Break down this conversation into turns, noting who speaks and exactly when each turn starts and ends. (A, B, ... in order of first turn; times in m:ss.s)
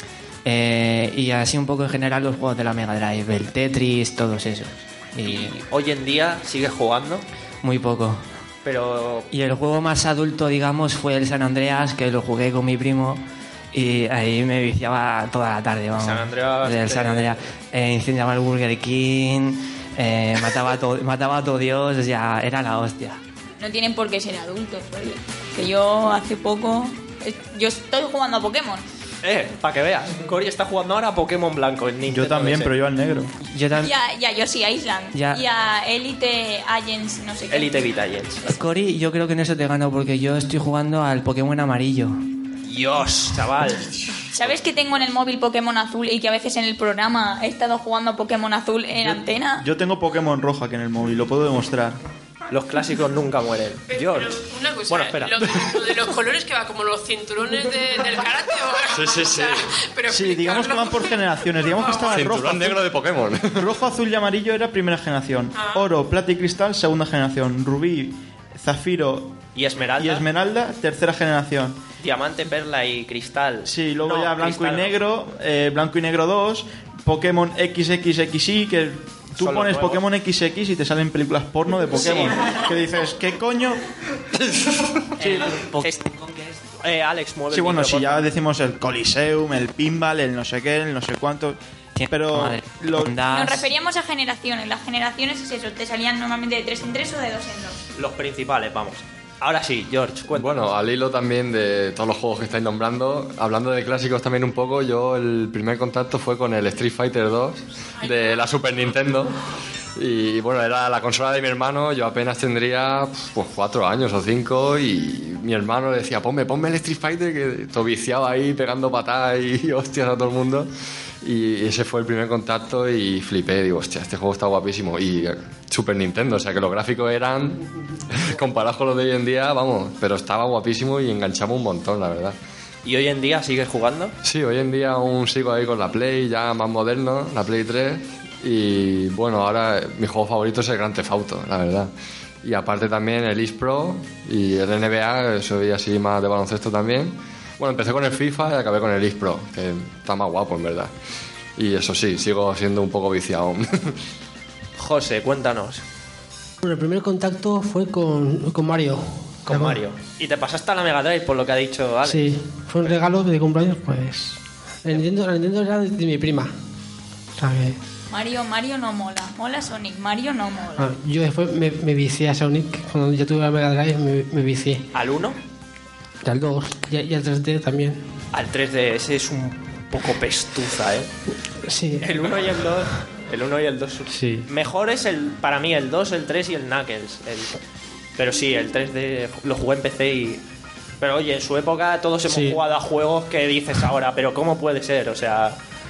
0:00.4-0:05.6 A
0:05.2-0:07.2 B
0:07.6-0:08.2 A
0:08.6-0:09.3 B
0:09.3-0:23.2 A
0:16.0-0:17.4 B
0:23.6-0:28.8 C
0:29.2-0:32.7 B
0:32.1-0:33.3 D
0:33.4-0:33.9 A
0:33.8-0:37.8 C
0:35.1-0:35.4 A
0:37.5-0:38.5 B
0:38.4-0:42.2 A
0:42.6-0:43.9 B
0:44.3-0:49.7 C
0:49.0-0:52.0 D
0:52.5-0:55.5 B
0:53.9-1:02.3 E
0:58.9-0:59.8 F
1:00.1-1:03.0 D
1:02.1-1:03.7 F
1:03.5-1:09.4 D
1:05.5-1:05.9 E
1:09.6-1:10.3 B
1:10.0-1:11.8 D
1:12.0-1:15.0 B
1:13.6-1:23.8 D
1:19.4-1:20.0 B
1:22.2-1:22.6 B
1:24.5-1:25.0 F
1:25.2-1:26.1 B
1:25.2-1:26.6 A
1:26.6-1:28.3 B
1:27.5-1:31.6 D
1:32.0-1:33.7 A
1:32.1-1:33.2 D
1:33.2-1:37.8 C
1:38.0-1:40.6 B
1:40.3-1:49.4 F
1:50.0-2:00.7 F
2:01.2-2:12.4 F
2:12.8-2:14.2 B
2:14.2-2:21.9 F
2:22.4-2:30.9 F
2:31.6-2:34.0 F
2:34.8-2:35.8 B
2:36.6-2:39.8 G
2:39.5-2:42.2 B
2:42.0-2:46.5 G
2:47.4-2:47.8 G
2:48.1-2:50.9 C
2:50.8-2:54.9 G
2:54.9-2:55.4 B
2:56.2-2:58.1 G
2:58.3-3:01.1 B
3:01.6-3:02.1 G
3:02.0-3:07.6 B
3:04.1-3:04.5 G
3:08.2-3:10.4 B
3:11.0-3:15.6 B
3:12.3-3:12.6 G